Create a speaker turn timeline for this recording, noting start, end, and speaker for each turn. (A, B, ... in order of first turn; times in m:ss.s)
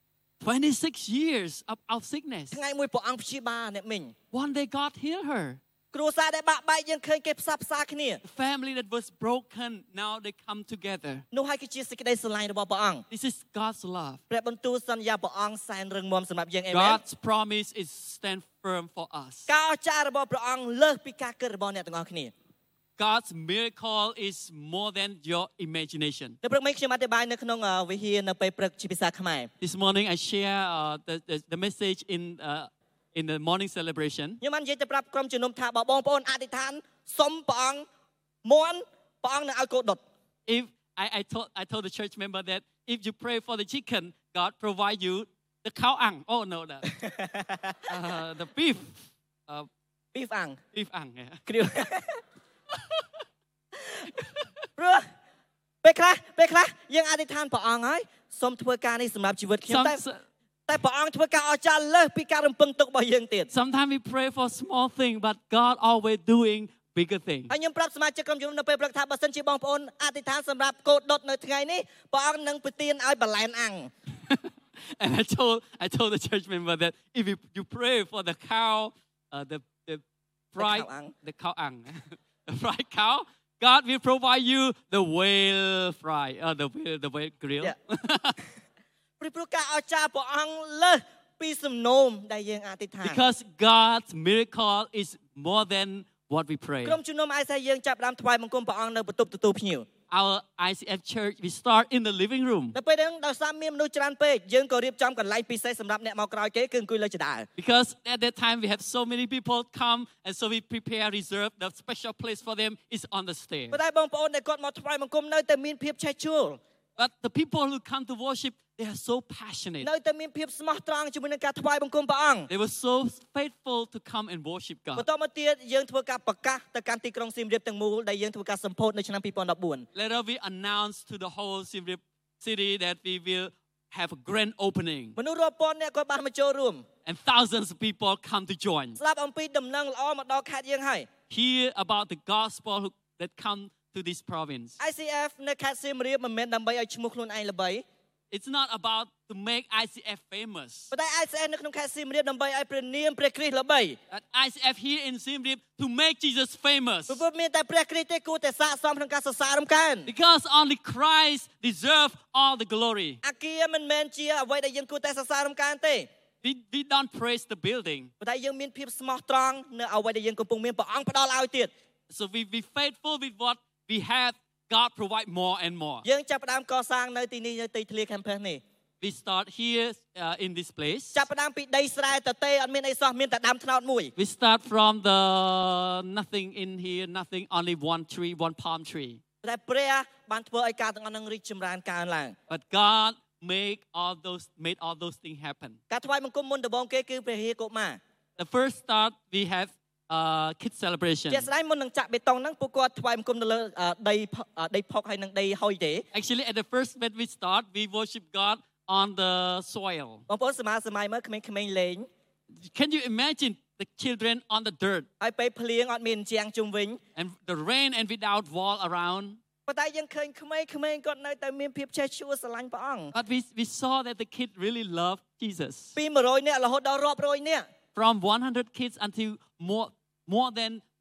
0:00.4-0:02.6 A
0:02.5-0:04.1 B
0:04.3-0:05.6 A
0:05.9-0:08.2 B
0:08.2-0:11.2 A
0:11.3-0:13.0 B
0:13.1-0:14.2 A
0:14.3-0:17.0 B
0:16.7-0:19.5 A
0:19.5-0:22.3 B
0:23.0-0:26.4 A
0:26.4-0:29.5 B
0:29.6-0:34.4 A
0:34.4-0:37.9 B
0:38.4-0:40.0 B
0:40.5-0:46.9 A
0:46.9-0:47.8 B
0:47.9-0:49.7 A
0:50.2-0:50.6 B
0:50.7-0:51.5 A
0:51.5-0:52.2 B
0:54.8-0:55.0 B
0:55.8-1:00.0 B
0:59.7-1:00.2 A
1:00.7-1:03.5 B
1:03.5-1:07.5 A
1:07.5-1:13.9 B
1:14.3-1:20.0 A
1:20.5-1:28.4 A
1:20.6-1:21.1 B
1:29.2-1:33.2 B
1:33.0-1:37.0 A
1:36.8-1:39.9 B
1:40.1-1:42.8 A
1:42.8-1:47.5 B
1:47.6-1:53.8 A
1:53.7-1:56.6 B
1:57.0-1:59.9 A
1:59.8-2:02.5 B
2:02.5-2:05.1 A
2:05.0-2:09.9 B
2:10.0-2:15.2 A
2:15.2-2:16.8 B
2:17.1-2:19.0 A
2:19.0-2:21.1 B
2:21.3-2:24.8 A
2:24.8-2:27.8 B
2:28.3-2:30.9 A
2:30.9-2:34.0 B
2:34.1-2:37.2 A
2:37.1-2:40.1 B
2:40.1-2:43.2 A
2:43.2-2:46.1 B
2:46.4-2:48.1 A
2:48.2-2:51.7 B
2:52.1-2:56.1 A
2:56.0-2:58.6 B
2:59.0-3:01.3 A
3:01.2-3:04.1 B
3:04.2-3:09.2 A
3:09.4-3:12.4 B
3:12.5-3:15.8 A
3:15.9-3:18.0 B
3:18.4-3:21.5 A
3:21.3-3:26.1 B
3:26.1-3:30.2 A
3:30.3-3:32.1 B
3:32.6-3:35.1 A
3:35.2-3:37.0 B
3:37.2-3:39.4 A
3:39.7-3:43.1 B
3:43.1-3:46.0 A
3:46.0-3:47.7 B
3:48.0-3:50.8 A